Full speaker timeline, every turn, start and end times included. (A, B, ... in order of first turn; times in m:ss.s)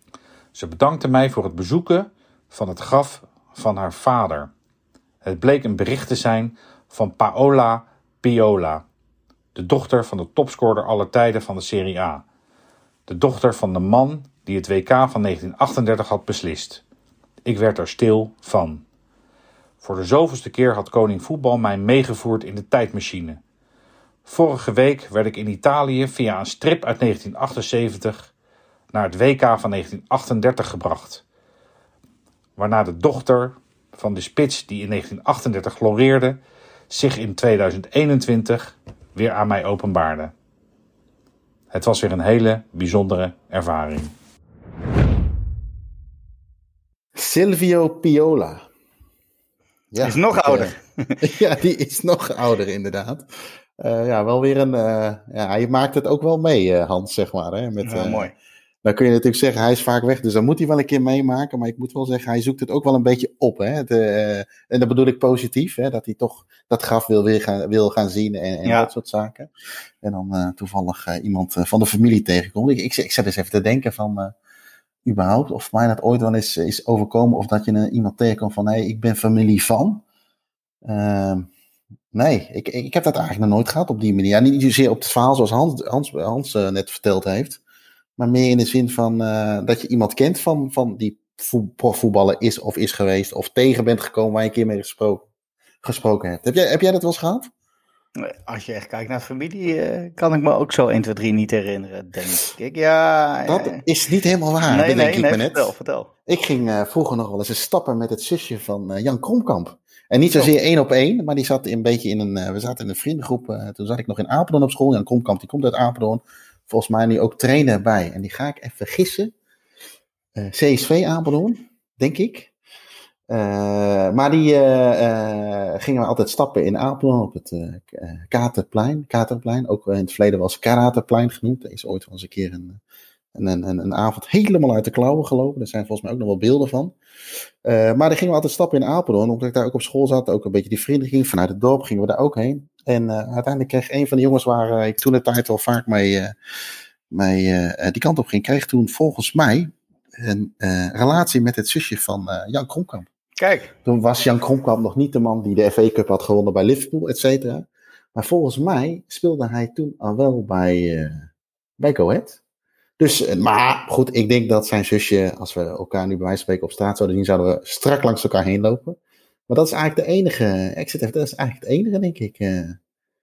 0:00.5-0:04.5 A
0:05.2-0:08.8 A
0:09.5-0:12.2 A
0:13.1-0:16.8 A
0:17.4-0:18.8 A
0:19.8-0:23.4 A
0:24.2-0:28.3 A
0:28.9-0:31.2 A
0:32.6-0:36.4 A
0:36.9-0:40.3 A
0:41.7-0:44.1 A
0:47.1-0:48.6 B
0:49.9-0:53.3 B
0:50.0-0:51.2 C
0:53.8-0:58.3 B
0:57.8-0:58.3 C
0:58.8-1:09.5 B
1:10.0-1:14.3 B
1:15.0-1:20.0 B
1:20.8-1:21.5 B
1:22.1-1:27.6 B
1:28.2-1:35.2 B
1:35.8-1:37.5 B
1:38.2-1:43.8 C
1:43.5-1:45.7 B
1:44.6-1:46.1 C
1:46.3-1:59.3 B
2:00.3-2:02.5 B
2:03.3-2:12.8 B
2:13.3-2:16.9 B
2:17.6-2:26.3 B
2:27.1-2:33.1 B
2:33.4-2:33.7 C
2:33.8-2:41.3 B
2:41.8-2:42.4 B
2:43.0-2:49.0 B
2:49.5-2:52.8 B